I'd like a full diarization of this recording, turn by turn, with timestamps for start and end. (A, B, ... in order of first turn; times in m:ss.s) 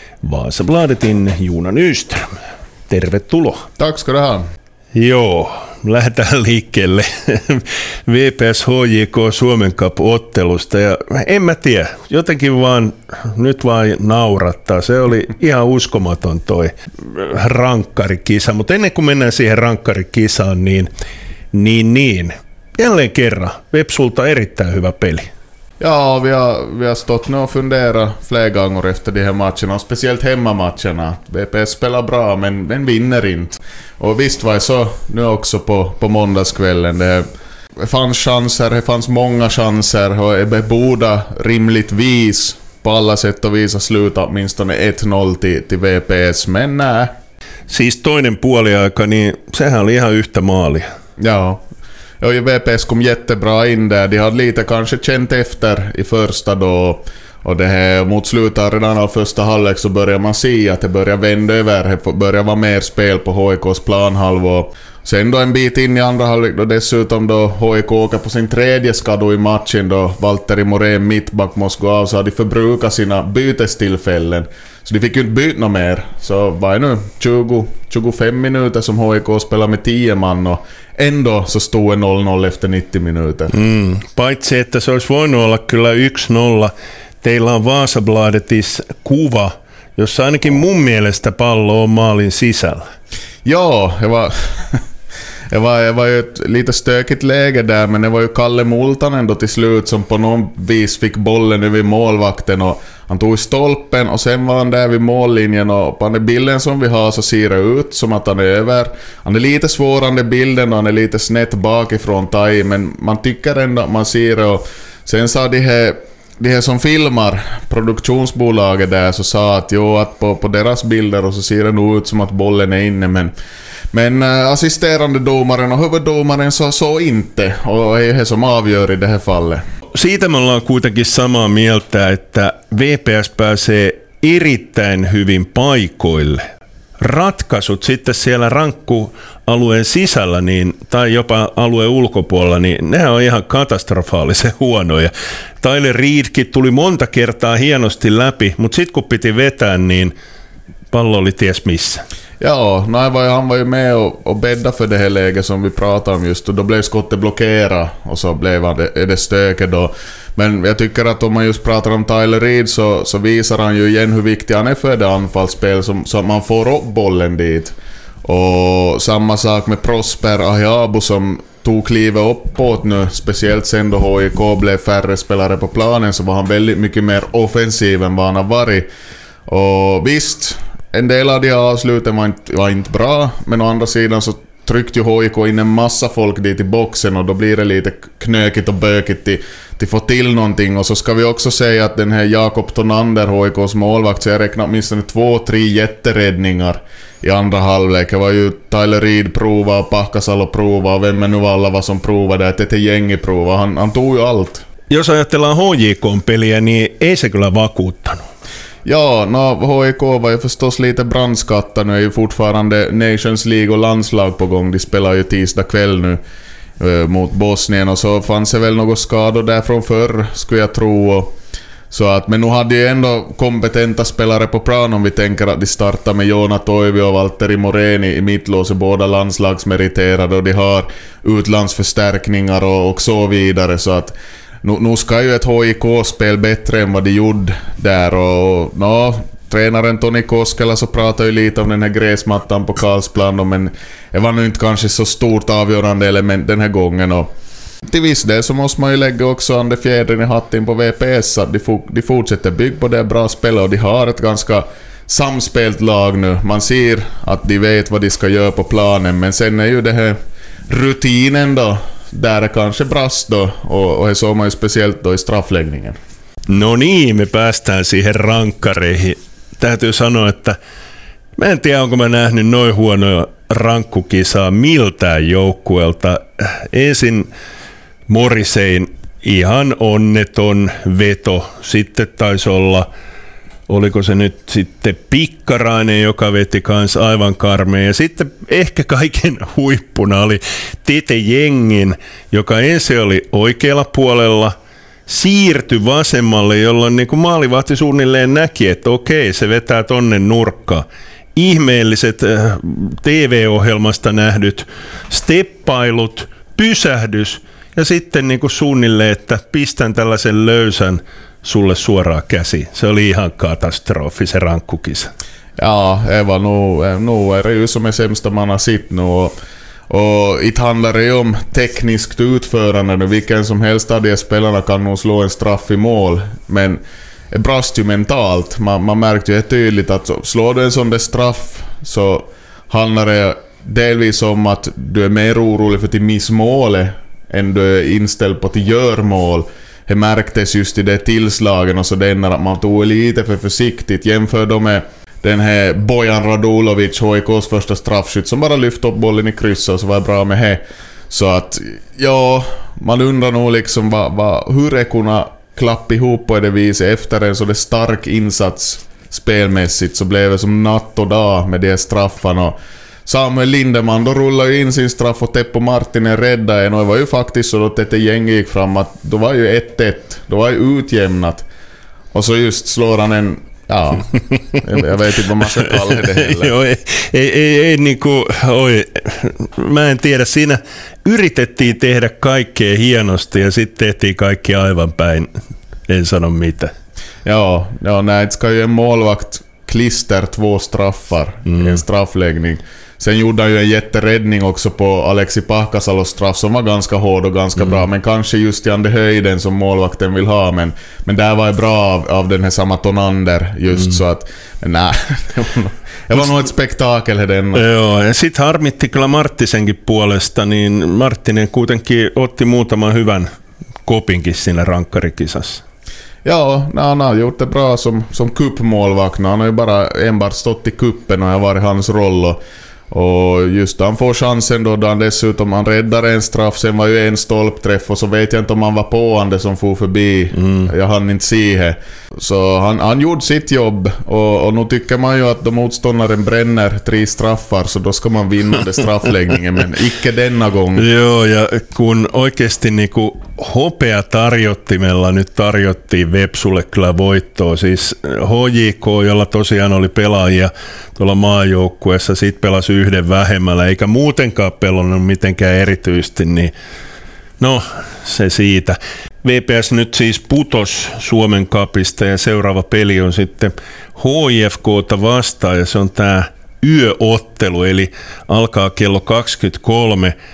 0:00.2-0:02.3 A
0:02.9-0:03.7 A
0:03.8-0:04.4 B
0:04.9-0:20.9 A
0:21.5-0:25.3 A
0:25.8-0:37.2 B
0:37.8-0:47.1 B
0:47.7-0:50.9 A
0:51.2-0:51.6 B
0:52.2-1:23.5 B
1:23.5-1:32.9 A
1:33.4-1:34.8 B
1:35.5-2:03.3 B
2:03.9-2:09.6 B
2:09.9-2:16.4 A
2:17.0-2:30.1 A
2:30.9-2:32.0 A
2:32.4-2:58.8 B
2:59.5-3:24.6 B
3:24.9-3:28.3 A
3:28.8-3:36.2 B
3:36.8-3:41.3 B
3:41.9-4:07.3 B
4:07.8-4:20.2 B
4:20.7-4:26.0 B
4:26.5-4:30.6 A
4:31.4-4:37.3 A
4:38.1-4:42.9 A
4:43.7-4:54.5 A
4:55.1-5:15.1 A
5:15.6-5:19.3 B
5:19.9-6:11.5 B
6:12.1-6:16.5 B
6:15.8-6:25.3 A
6:25.9-6:26.7 A
6:27.2-6:47.6 B
6:47.5-6:53.3 A
6:53.8-6:55.6 A
6:56.2-7:20.9 B
7:10.4-7:10.7 A
7:20.8-7:36.5 A
7:37.4-7:50.1 A